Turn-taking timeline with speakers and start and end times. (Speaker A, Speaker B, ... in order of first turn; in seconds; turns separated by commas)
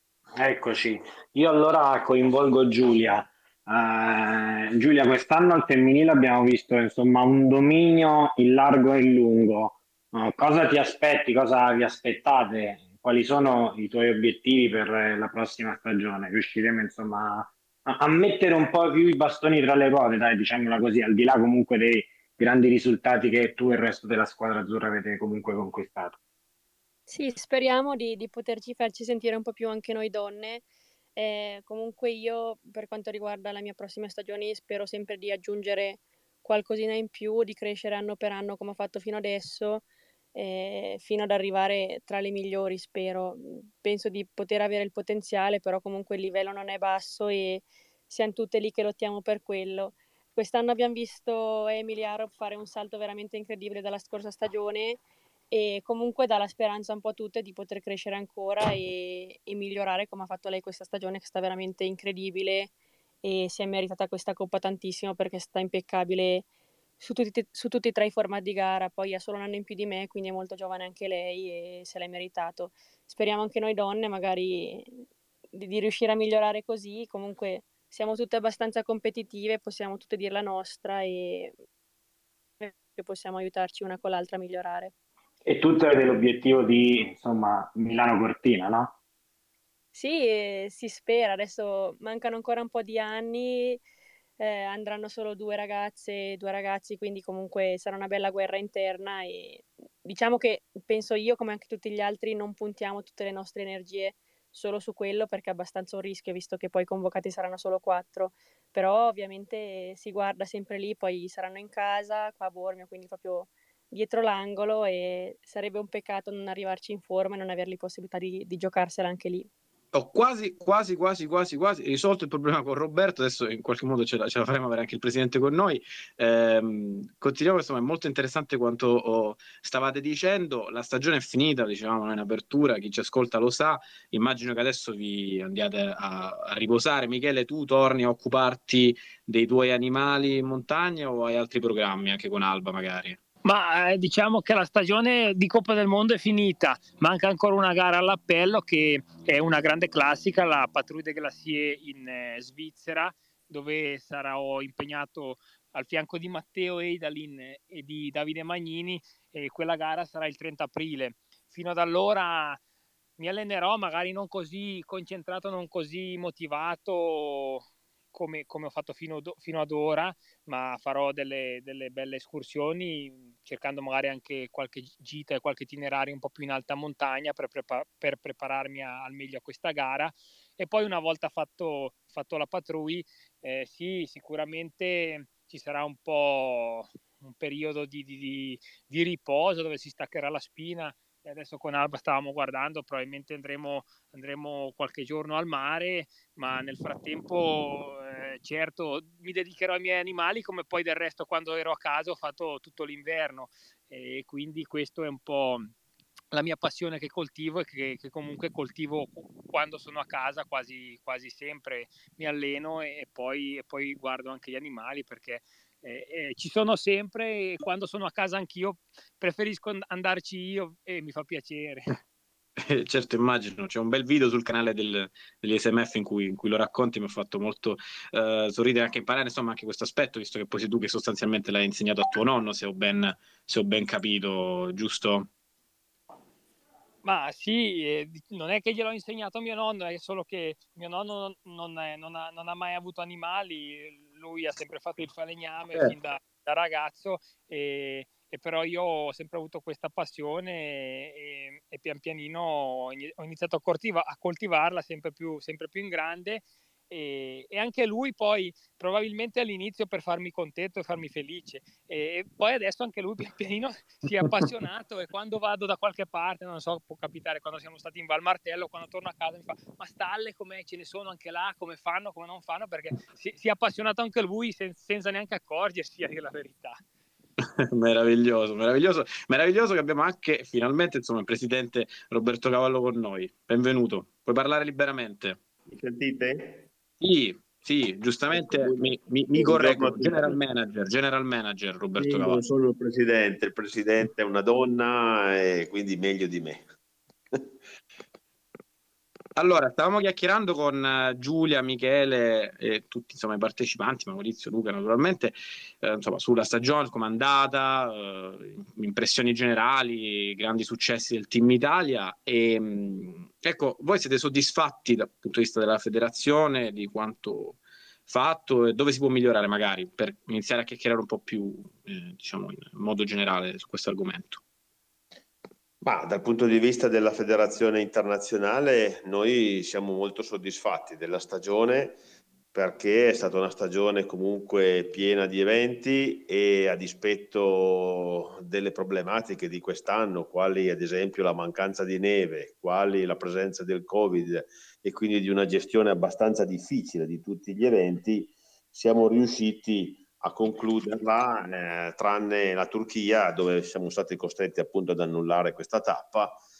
Speaker A: 0.4-26.2, Speaker B: 27.1-30.6, Speaker B: 31.1-55.0, Speaker B: 55.5-62.7, Speaker B: 63.2-66.5, Speaker B: 67.0-75.0, Speaker B: 75.5-81.5, Speaker B: 82.6-84.9, Speaker A: 85.5-88.9, Speaker B: 89.9-93.8, Speaker B: 94.4-119.5, Speaker C: 119.9-143.2, Speaker D: 143.4-162.6, Speaker D: 163.2-205.7, Speaker D: 206.3-221.9, Speaker C: 222.6-235.3, Speaker D: 237.0-276.8, Speaker C: 277.4-285.4, Speaker E: 285.7-286.7, Speaker C: 287.0-292.4, Speaker E: 288.3-290.4, Speaker E: 292.0-296.6, Speaker C: 299.4-324.4, Speaker E: 325.8-332.0, Speaker E: 332.5-356.4